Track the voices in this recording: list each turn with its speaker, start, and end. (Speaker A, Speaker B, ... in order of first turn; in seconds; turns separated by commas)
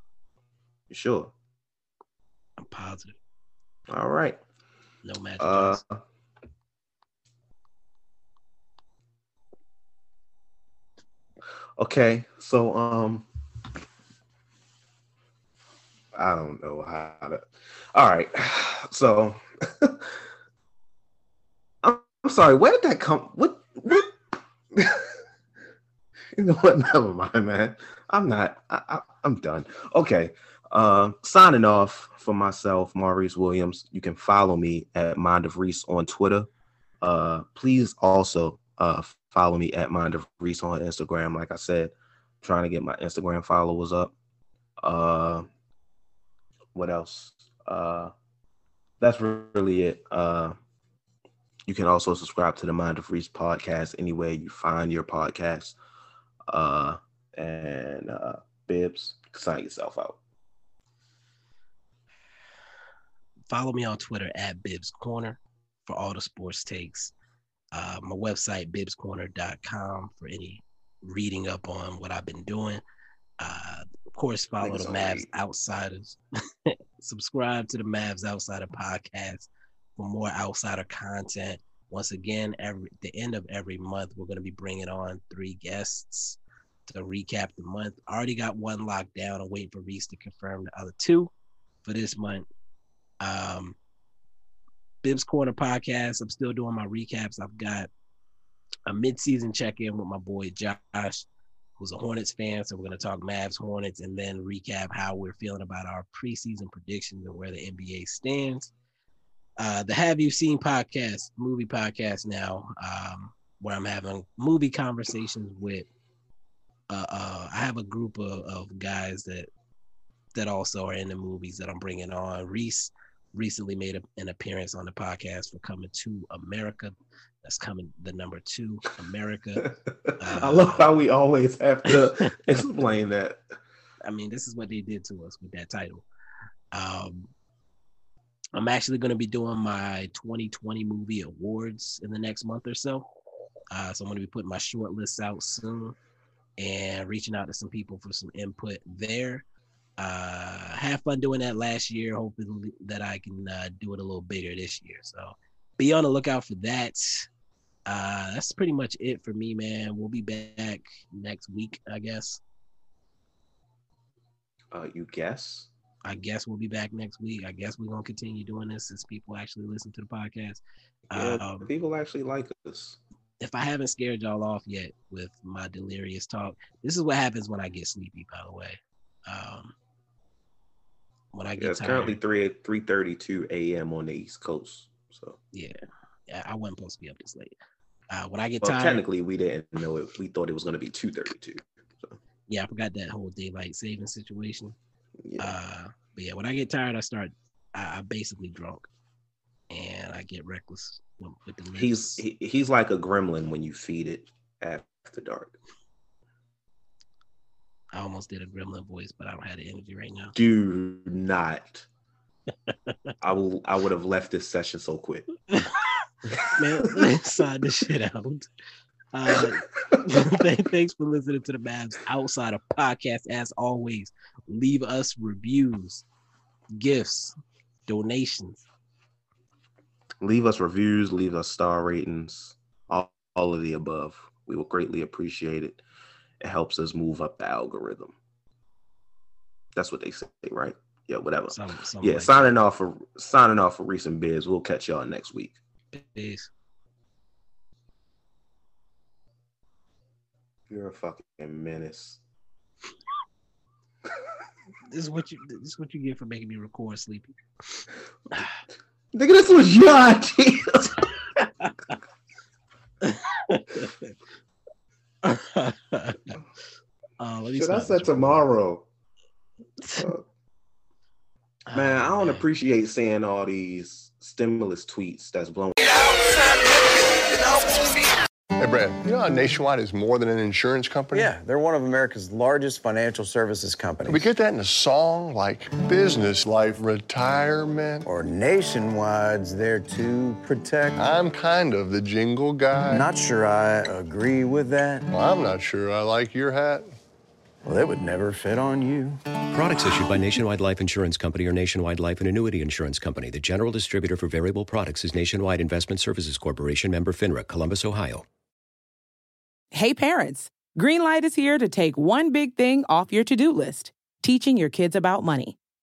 Speaker A: 0.9-1.3, Speaker B: 2.6-3.2, Speaker A: 3.9-4.4, Speaker B: 5.0-5.8, Speaker A: 5.4-6.0, Speaker A: 11.8-13.2, Speaker A: 16.1-17.4, Speaker A: 17.9-20.1, Speaker A: 21.8-24.1, Speaker A: 24.7-25.1, Speaker A: 26.4-36.5, Speaker A: 37.0-44.1, Speaker A: 44.8-45.5, Speaker A: 46.7-48.1, Speaker A: 49.0-50.5, Speaker A: 51.7-55.8, Speaker A: 56.5-60.2, Speaker B: 63.5-67.1, Speaker B: 67.7-72.8, Speaker B: 73.4-91.3, Speaker A: 74.6-75.3, Speaker B: 91.8-92.5, Speaker B: 93.2-93.8, Speaker B: 95.0-97.9, Speaker B: 98.8-108.7, Speaker B: 109.6-115.8, Speaker B: 116.9-119.5, Speaker B: 120.3-129.7, Speaker A: 129.6-133.4, Speaker B: 130.2-130.8, Speaker B: 131.9-132.3, Speaker B: 134.0-136.1, Speaker B: 136.7-137.3, Speaker B: 138.5-143.1, Speaker B: 143.7-146.0, Speaker B: 146.6-149.4, Speaker B: 150.0-157.3, Speaker B: 157.9-162.4, Speaker A: 164.7-165.7, Speaker B: 166.1-171.7, Speaker A: 171.1-173.0, Speaker B: 173.4-179.7, Speaker B: 181.3-182.2, Speaker A: 181.6-185.4, Speaker B: 185.5-187.6, Speaker B: 188.1-189.0, Speaker A: 188.6-192.2, Speaker B: 192.5-194.8, Speaker A: 195.2-195.5, Speaker B: 195.4-198.9, Speaker B: 199.7-202.2, Speaker A: 201.8-205.5, Speaker B: 207.9-210.3, Speaker A: 210.3-211.8, Speaker B: 212.7-213.1, Speaker A: 213.2-215.3, Speaker B: 215.5-216.0, Speaker A: 216.3-217.0, Speaker B: 216.6-218.5, Speaker B: 219.1-226.1, Speaker A: 219.3-220.0, Speaker B: 226.8-227.3, Speaker B: 227.9-228.6, Speaker A: 230.2-235.8, Speaker A: 236.4-238.2, Speaker A: 239.8-245.6, Speaker B: 241.5-242.5, Speaker B: 245.9-246.5, Speaker A: 250.7-252.2, Speaker B: 254.9-258.6, Speaker A: 259.1-261.1, Speaker B: 261.4-261.9, Speaker B: 263.0-264.1, Speaker B: 265.2-266.4, Speaker B: 267.2-268.4, Speaker A: 267.5-268.8, Speaker A: 269.9-270.2, Speaker B: 271.7-272.4, Speaker A: 271.7-276.8, Speaker C: 278.6-281.3, Speaker D: 281.1-284.3, Speaker C: 284.1-288.1, Speaker D: 288.0-291.0, Speaker C: 291.0-293.1, Speaker D: 292.9-295.1, Speaker C: 295.1-296.9, Speaker D: 297.6-299.2, Speaker E: 299.5-308.2, Speaker F: 309.7-315.6